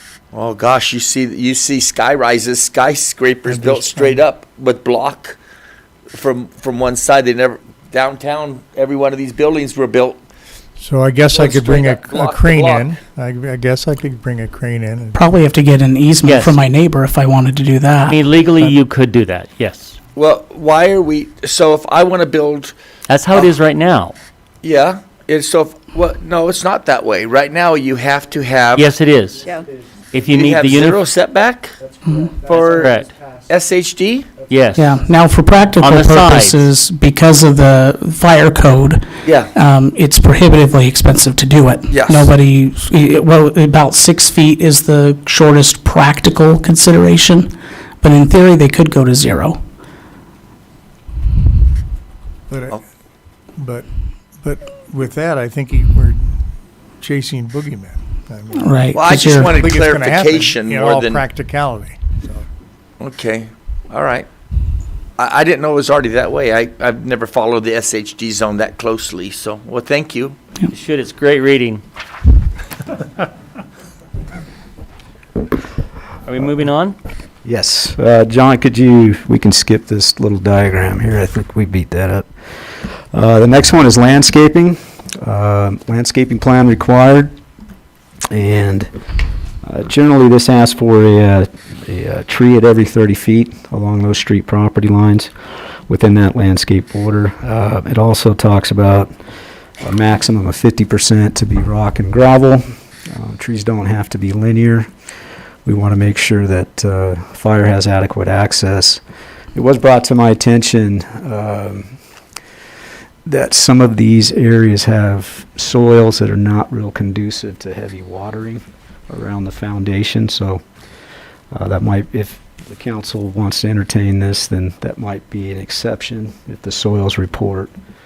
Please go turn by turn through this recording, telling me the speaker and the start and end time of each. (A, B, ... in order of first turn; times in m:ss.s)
0:00.3-0:05.4 A
0:03.4-0:04.3 B
0:06.1-0:10.2 A
0:10.8-0:15.2 B
0:11.3-0:12.9 A
0:15.2-0:18.2 C
0:16.2-0:16.6 D
0:18.1-0:20.0 D
0:20.2-0:22.7 A
0:23.1-0:24.2 D
0:24.6-0:28.8 A
0:28.8-0:29.4 D
0:29.4-0:30.4 E
0:30.1-0:31.1 D
0:30.4-0:31.8 A
0:31.8-0:35.1 E
0:32.4-0:32.8 A
0:32.8-0:33.1 D
0:33.5-0:34.3 A
0:34.4-0:34.8 D
0:34.8-0:49.6 C
0:35.8-0:36.6 D
0:39.2-0:39.5 A
0:41.9-0:42.4 A
0:52.5-0:52.8 B
0:53.6-0:53.9 B
0:54.4-0:56.4 B
0:57.0-0:58.7 B
0:58.5-0:59.6 C
0:58.9-1:01.2 A
0:59.4-1:02.4 B
1:03.0-1:04.3 A
1:05.2-1:10.4 A
1:10.7-1:11.8 D
1:16.2-1:17.0 D
1:17.4-1:22.3 F
1:23.1-1:27.3 F
1:28.3-1:28.9 F
1:29.6-1:35.3 F
1:35.9-1:39.1 F
1:39.8-1:44.9 F
1:45.6-1:49.0 F
1:49.5-1:52.0 F
1:53.2-2:00.6 F
2:01.5-2:07.7 F